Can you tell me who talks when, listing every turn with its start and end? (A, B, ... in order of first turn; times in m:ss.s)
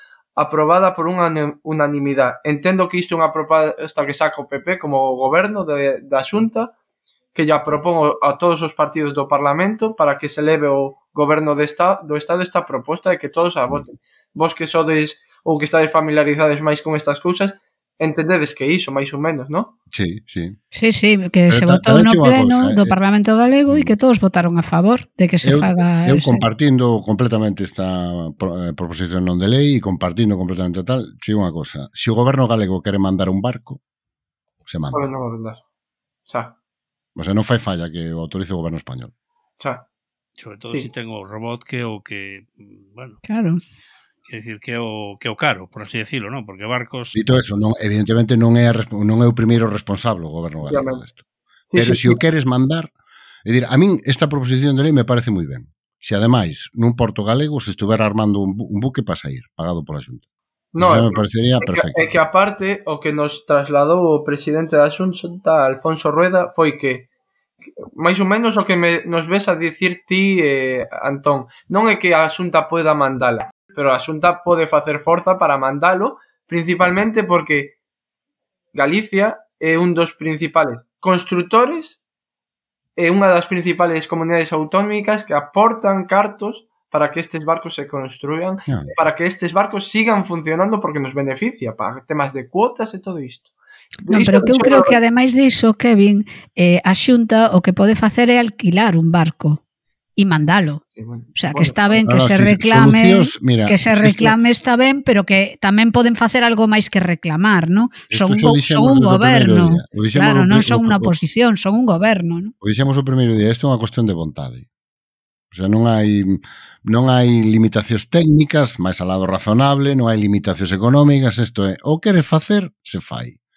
0:00.4-0:06.7 A
0:07.3-0:19.7 A
0:19.9-0:20.6 B
0:20.7-0:26.4 C
0:21.5-0:23.0 B
0:23.7-0:23.9 B
0:25.4-0:33.8 B
0:34.6-0:35.0 B
0:34.9-0:35.6 A
0:36.2-0:36.5 A
0:37.2-0:39.1 B
0:39.6-0:39.8 A
0:40.4-0:43.2 D
0:43.2-0:43.6 C
0:44.3-0:47.2 D
0:47.1-0:51.2 B
0:50.6-0:51.0 A
0:51.7-0:52.2 A
0:51.8-0:52.9 B
0:53.4-1:00.2 B
1:00.7-1:07.1 A
1:00.8-1:02.2 B
1:07.8-1:17.7 A
1:18.7-1:22.0 A
1:23.0-1:33.5 A
1:28.7-1:28.9 B
1:34.0-1:35.0 A
1:34.1-1:39.6 C
1:40.2-1:40.8 C
1:40.9-1:42.0 A
1:41.4-1:52.5 C
1:42.0-1:44.4 B
1:48.1-1:51.1 B
1:52.6-1:54.6 B
1:55.5-2:03.4 B